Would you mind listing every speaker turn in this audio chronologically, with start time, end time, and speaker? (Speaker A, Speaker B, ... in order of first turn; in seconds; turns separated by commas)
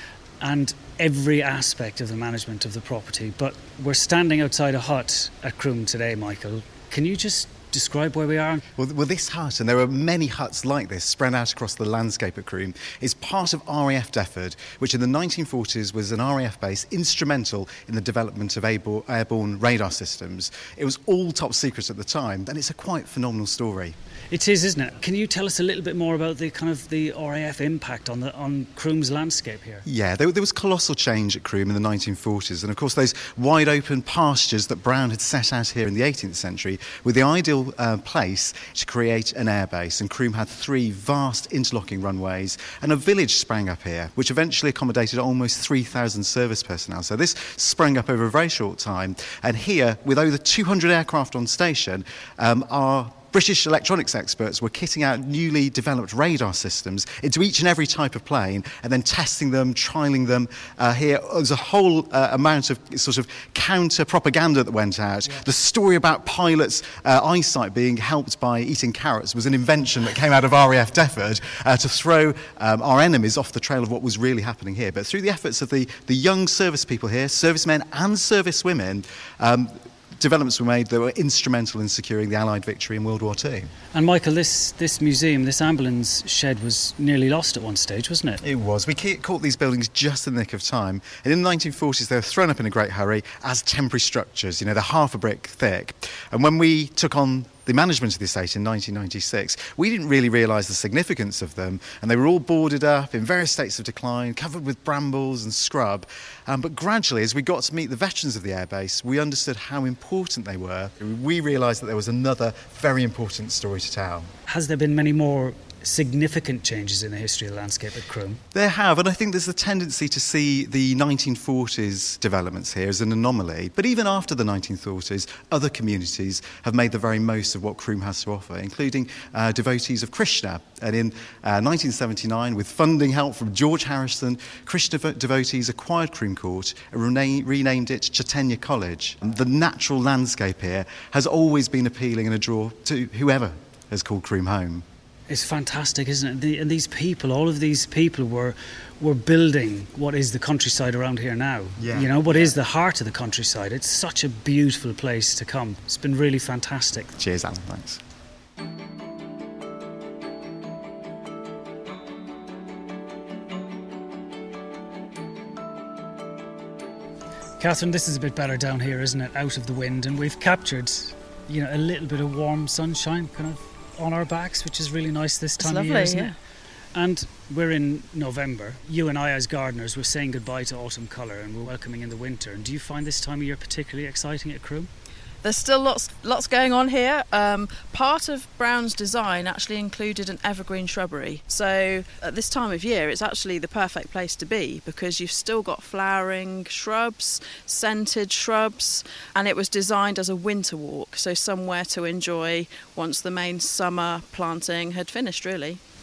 Speaker A: 0.4-8.6, Speaker B: 8.8-24.0, Speaker A: 24.3-29.9, Speaker B: 29.9-83.7, Speaker A: 83.9-88.4, Speaker B: 88.4-114.3, Speaker A: 114.5-118.4, Speaker B: 118.5-144.8, Speaker A: 145.3-157.1, Speaker B: 151.8-152.6, Speaker B: 157.2-158.0, Speaker A: 167.6-176.3, Speaker C: 175.6-176.2, Speaker A: 176.9-184.9, Speaker C: 185.4-205.8